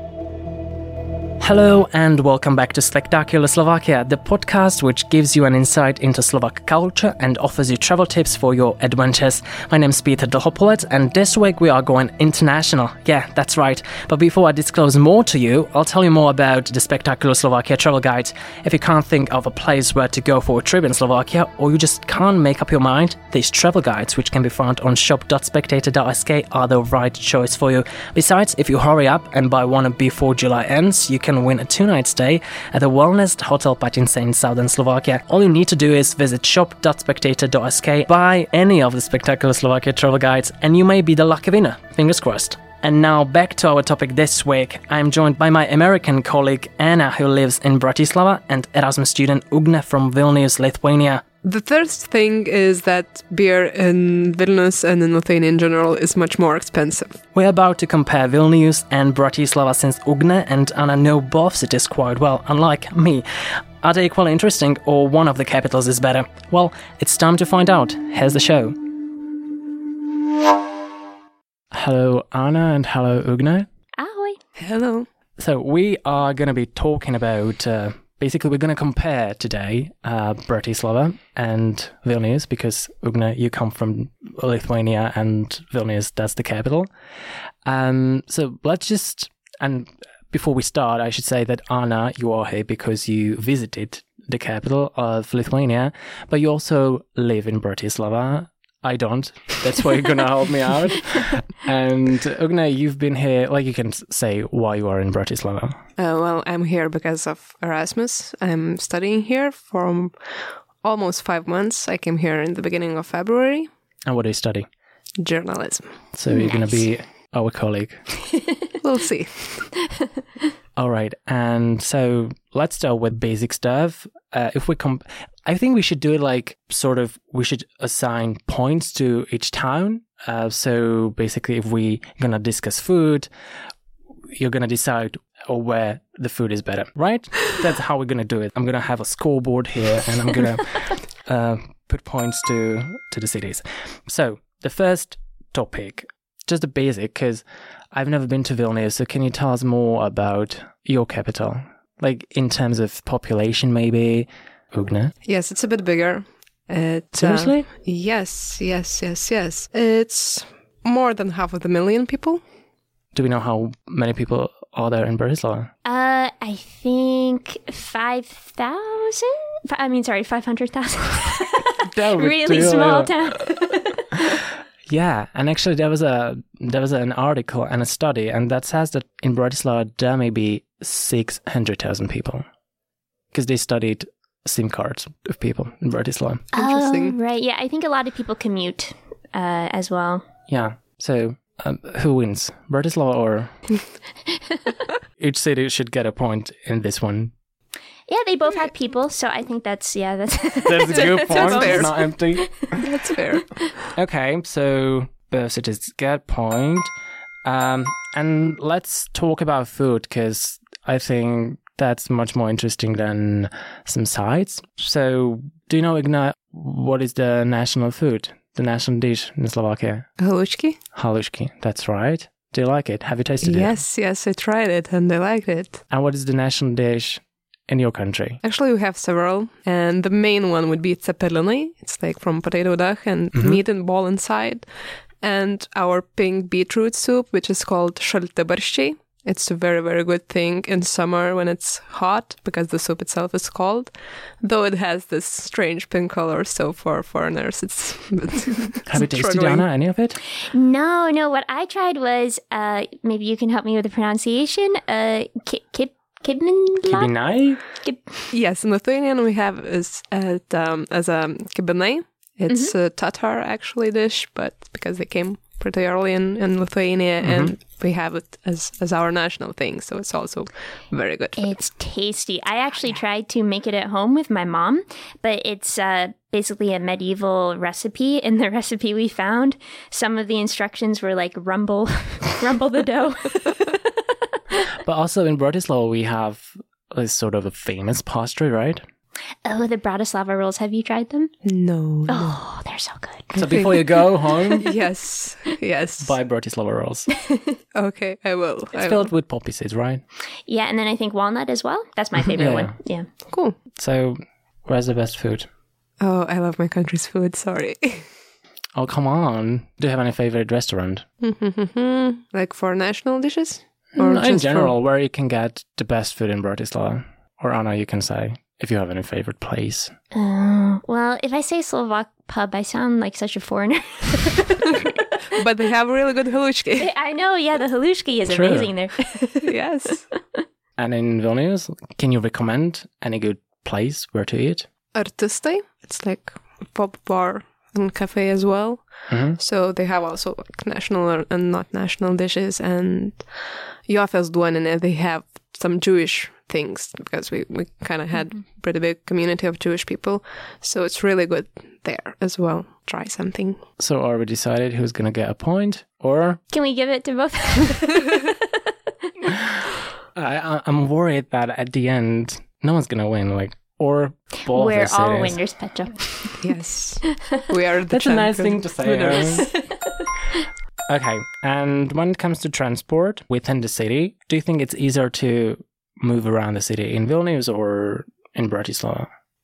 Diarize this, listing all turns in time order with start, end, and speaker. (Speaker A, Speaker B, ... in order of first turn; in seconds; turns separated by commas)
Speaker A: 1.4-51.2, Speaker B: 51.4-57.2, Speaker A: 57.3-68.8, Speaker A: 71.7-73.7, Speaker C: 74.0-74.4, Speaker B: 74.6-75.1, Speaker A: 75.4-86.9, Speaker A: 87.6-105.8, Speaker B: 106.0-113.7, Speaker A: 114.0-114.7, Speaker B: 115.2-116.0, Speaker A: 116.1-118.1, Speaker C: 116.3-116.9, Speaker B: 118.8-119.7, Speaker A: 120.8-133.3, Speaker A: 134.3-155.1, Speaker B: 155.2-162.4, Speaker A: 157.2-157.7, Speaker A: 163.1-165.7, Speaker C: 165.8-174.2, Speaker A: 171.9-173.2, Speaker A: 174.9-182.4, Speaker A: 183.3-186.5, Speaker C: 186.5-190.2, Speaker B: 186.5-187.2, Speaker A: 190.5-193.7, Speaker A: 195.2-197.3, Speaker C: 198.1-202.8, Speaker A: 200.7-202.7, Speaker B: 200.9-202.2, Speaker B: 202.8-203.8, Speaker A: 203.9-206.9, Speaker A: 207.4-220.2, Speaker B: 220.2-220.8, Speaker A: 220.9-223.8, Speaker B: 223.4-225.8, Speaker A: 225.9-228.4, Speaker B: 228.4-249.7, Speaker A: 233.3-233.6, Speaker A: 248.9-250.2, Speaker C: 250.5-258.3, Speaker A: 256.9-257.6, Speaker B: 258.3-271.6, Speaker C: 262.5-262.7, Speaker A: 267.2-267.5, Speaker C: 271.4-283.8, Speaker A: 284.8-288.8, Speaker C: 289.4-291.3, Speaker B: 291.4-292.4, Speaker C: 292.1-294.6, Speaker A: 293.3-294.6, Speaker B: 293.3-293.9, Speaker B: 294.6-296.2, Speaker A: 296.0-297.1, Speaker B: 297.8-299.1, Speaker A: 298.7-300.0, Speaker C: 300.5-303.1, Speaker A: 302.3-302.8, Speaker B: 303.3-303.6, Speaker A: 303.8-305.5, Speaker B: 306.0-308.1, Speaker A: 308.8-311.1, Speaker B: 311.2-314.7, Speaker A: 314.0-319.9, Speaker C: 320.1-325.2, Speaker B: 325.4-326.9, Speaker C: 326.8-329.5, Speaker A: 328.3-328.7, Speaker B: 329.4-330.1, Speaker A: 330.8-334.7, Speaker B: 334.9-353.6, Speaker A: 339.1-339.4, Speaker A: 353.8-356.4, Speaker C: 356.5-358.3, Speaker A: 360.1-365.4, Speaker C: 364.5-366.5, Speaker B: 366.4-369.6, Speaker A: 367.9-369.5, Speaker C: 369.1-369.9, Speaker A: 370.9-379.1